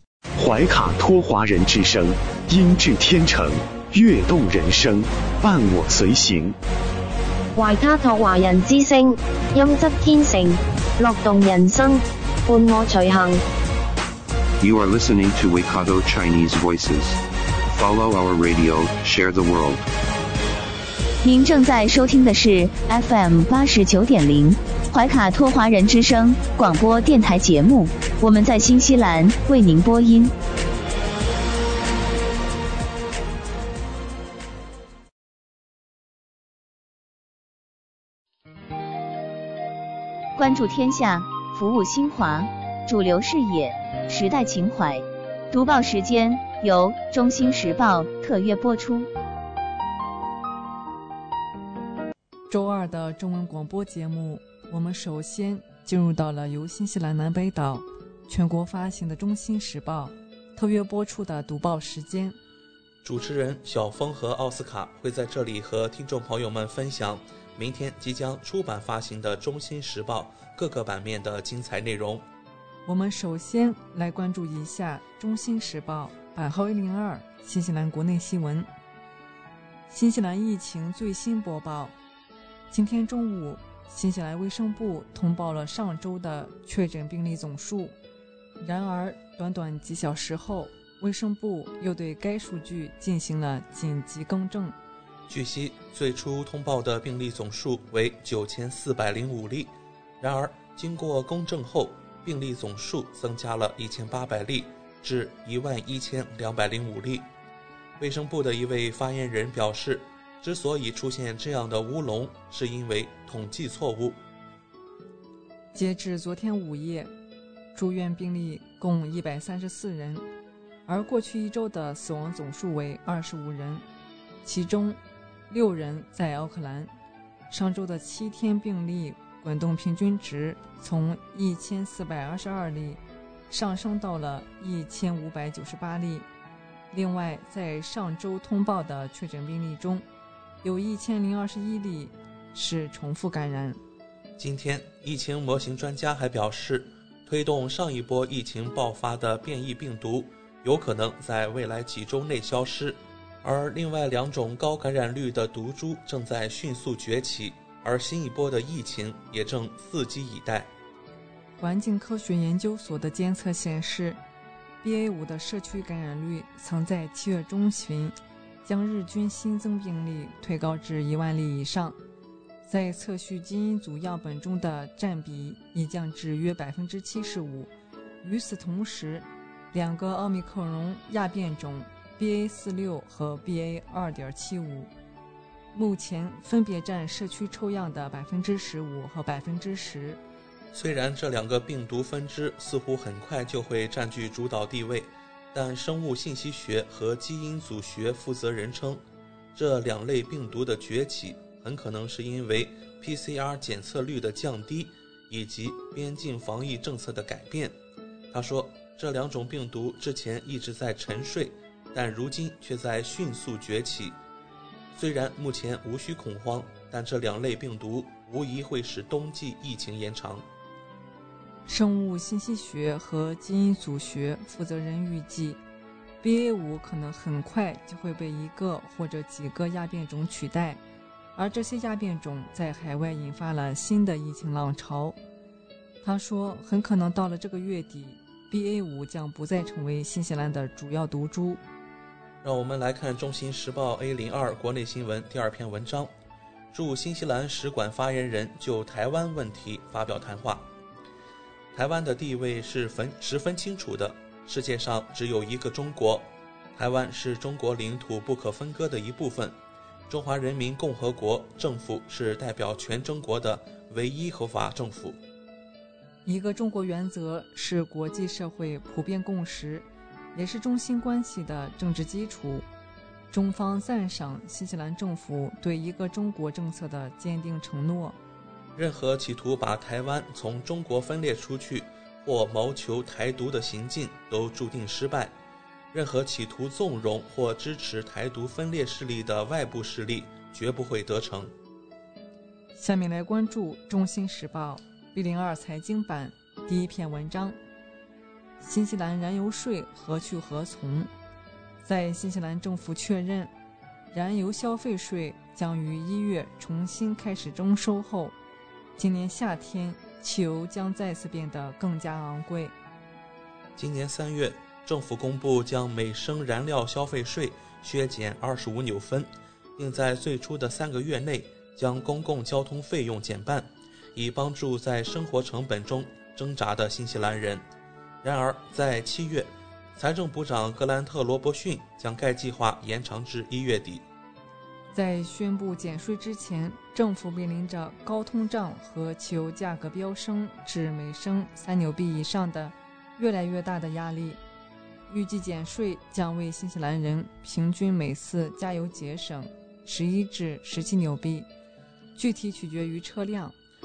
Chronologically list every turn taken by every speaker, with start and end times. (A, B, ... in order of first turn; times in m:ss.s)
0:00.4-0:06.6 A
0:07.5-0:13.4 B
0:14.6-0:19.9 C
0:21.2-0:30.3 D
0:40.4-0:49.1 D
0:52.5-1:02.4 E
1:03.0-1:12.2 F
1:12.8-1:18.7 E
1:19.9-1:21.9 E
1:22.7-1:27.9 E
1:28.6-1:34.7 E
1:35.3-1:47.3 F
1:48.0-1:54.2 F
1:55.7-1:57.1 E
1:57.7-2:00.2 E
2:00.9-2:03.8 E
2:04.4-2:05.0 E
2:05.5-2:06.9 E
2:07.5-2:16.3 E
2:16.9-2:20.1 E
2:20.6-2:23.8 E
2:24.4-2:40.7 F
2:41.6-2:44.2 E
2:44.8-2:52.0 E
2:52.7-2:57.7 E
2:58.2-3:04.9 E
3:05.7-3:10.2 E
3:10.7-3:27.8 F
3:28.3-3:34.2 F
3:34.9-3:40.5 F
3:41.7-3:45.6 E
3:46.2-3:50.8 E
3:51.4-3:55.2 E
3:56.0-4:01.6 E
4:02.4-4:06.1 F
4:06.7-4:10.7 F
4:11.7-4:25.2 F
4:26.2-4:32.6 E
4:33.3-4:38.2 E
4:38.8-4:45.4 F
4:45.9-4:51.5 F
4:52.8-4:57.6 E
4:58.6-5:01.1 E
5:01.8-5:03.5 E
5:04.1-5:08.3 E
5:09.0-5:12.7 E
5:13.8-5:27.6 F
5:28.2-5:34.0 F
5:34.9-5:44.4 E
5:45.1-5:51.5 E
5:52.2-5:53.6 E